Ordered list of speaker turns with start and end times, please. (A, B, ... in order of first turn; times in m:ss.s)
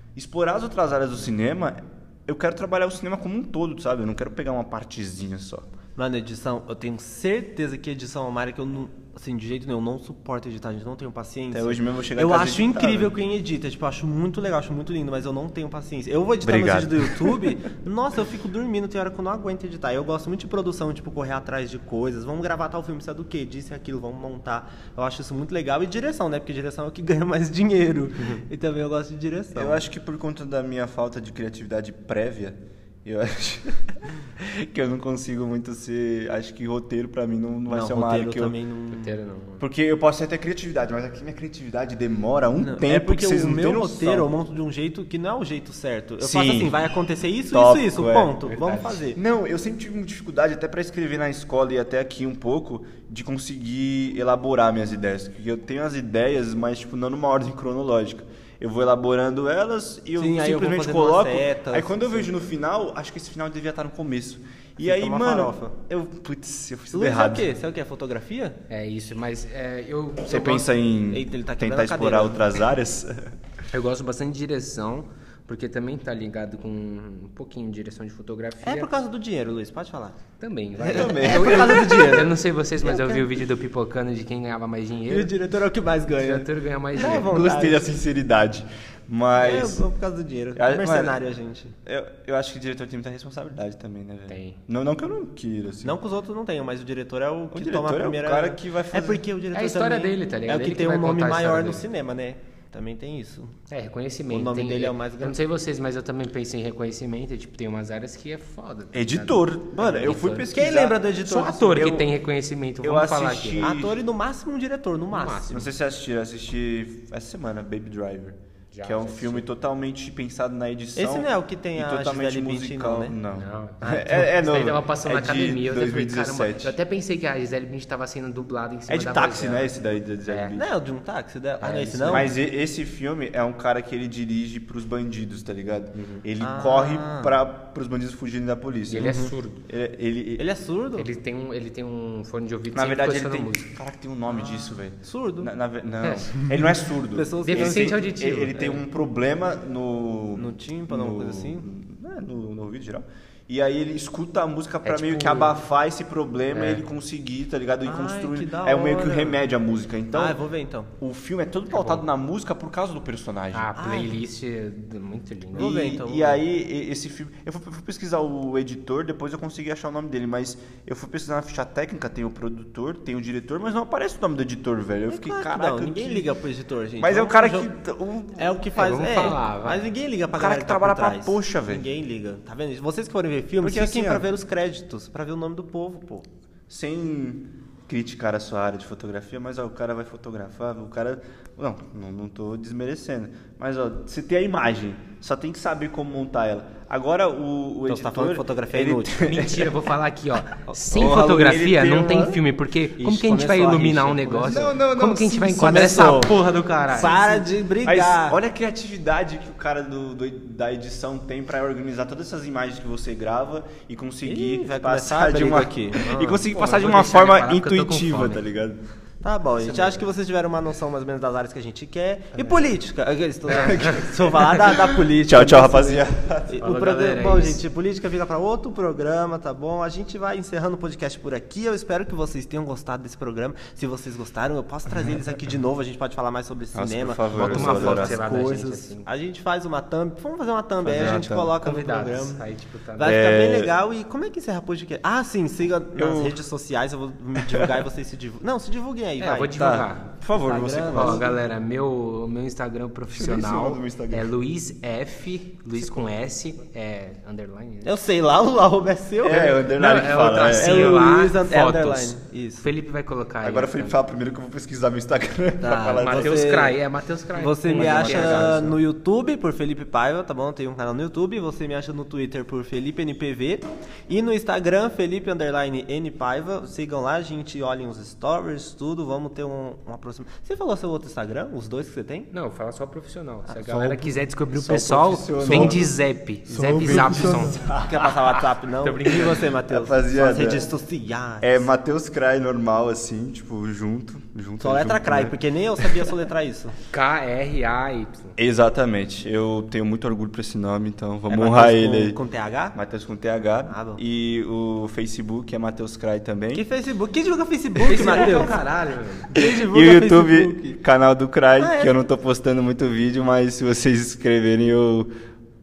0:00.2-0:05.7 A
0:06.0-0:29.8 B
0:11.5-0:13.2 A
0:16.4-0:17.5 A
0:29.5-0:38.6 A
0:37.7-0:39.2 B
0:38.9-0:39.6 C
0:39.6-0:44.3 A
0:42.5-0:49.2 B
0:46.2-0:46.8 A
0:47.5-0:48.3 A
0:48.5-0:48.9 C
0:49.1-1:07.5 A
1:00.2-1:02.3 B
1:04.8-1:05.7 B
1:06.9-1:08.6 B
1:08.7-1:10.7 C
1:10.3-1:13.3 A
1:11.1-1:12.6 B
1:13.7-1:18.9 C
1:18.6-1:20.2 B
1:20.4-1:25.3 C
1:20.8-1:23.4 B
1:20.8-1:22.2 A
1:25.1-1:27.8 B
1:26.1-1:27.4 C
1:27.0-1:29.8 A
1:29.4-1:31.7 B
1:30.6-1:31.2 A
1:31.8-1:36.0 A
1:34.3-1:34.6 C
1:35.8-1:43.6 B
1:37.5-1:39.2 A
1:39.5-1:41.8 C
1:43.7-1:50.5 C
1:44.3-1:45.4 B
1:48.9-1:52.1 A
1:50.0-1:52.0 B
1:51.2-1:53.6 C
1:52.8-1:54.0 A
1:53.6-1:55.6 B
1:55.1-1:55.7 C
1:55.5-2:06.7 A
1:58.7-1:59.4 C
2:01.0-2:03.2 B
2:03.3-2:09.7 C
2:03.8-2:04.3 B
2:08.9-2:10.7 A
2:10.3-2:10.6 C
2:10.5-2:12.3 B
2:11.6-2:12.3 C
2:12.1-2:20.4 A
2:16.4-2:17.4 B
2:18.9-2:19.6 C
2:19.0-2:19.3 B
2:20.4-2:21.1 B
2:20.9-2:23.7 C
2:22.7-2:40.4 A
2:24.3-2:25.5 B
2:26.0-2:26.3 C
2:26.4-2:28.6 B
2:27.4-2:28.8 C
2:30.4-2:31.6 B
2:34.8-2:35.5 C
2:36.5-2:36.8 C
2:37.8-2:39.4 B
2:40.1-2:40.9 B
2:41.0-2:43.7 A
2:41.7-2:42.0 C
2:43.5-2:45.7 C
2:43.8-2:44.2 B
2:45.5-2:46.4 B
2:45.5-2:56.3 A
2:55.1-2:57.7 B
2:57.0-2:58.6 A
2:58.4-3:06.2 B
2:58.7-2:59.9 C
3:00.3-3:01.8 A
3:03.6-3:04.2 A
3:06.7-3:19.8 A
3:17.9-3:19.3 B
3:19.2-3:27.4 C
3:20.9-3:21.3 B
3:20.9-3:22.4 A
3:23.0-3:24.7 B
3:24.4-3:26.3 A
3:25.5-3:26.4 B
3:26.9-3:28.4 B
3:27.8-3:38.8 A
3:34.2-3:36.1 B
3:36.0-3:38.4 C
3:39.2-4:02.4 B
3:39.6-3:40.0 C
3:43.5-3:46.6 A
3:43.7-3:44.0 C
3:46.6-3:47.6 C
3:56.7-3:58.2 A
3:57.3-3:59.1 C
4:00.8-4:01.6 A
4:01.0-4:03.2 C
4:03.0-4:09.6 B
4:03.0-4:03.7 A
4:06.0-4:06.4 A
4:07.4-4:07.7 A
4:09.2-4:10.1 C
4:09.5-4:11.3 A
4:10.4-4:11.3 B
4:10.9-4:17.9 C
4:13.1-4:14.3 A
4:17.8-4:19.6 B
4:19.2-4:21.0 A
4:19.6-4:24.0 C
4:20.5-4:22.7 B
4:23.4-4:26.6 A
4:25.6-4:26.8 B
4:26.0-4:28.7 C
4:27.3-4:42.3 B
4:27.7-4:28.8 A
4:42.3-4:49.4 C
4:43.6-4:45.9 A
4:45.4-4:45.9 B
4:46.5-4:48.2 A
4:46.5-4:51.6 B
4:49.6-4:50.7 A
4:51.4-4:56.1 A
4:54.6-4:56.8 B
4:56.9-4:58.4 C
4:58.4-5:02.2 A
5:01.3-5:02.7 B
5:02.7-5:06.6 A
5:03.7-5:04.0 B
5:06.5-5:08.6 B
5:07.9-5:08.5 A
5:07.9-5:09.3 C
5:09.3-5:10.8 B
5:09.3-5:15.1 A
5:11.6-5:12.0 B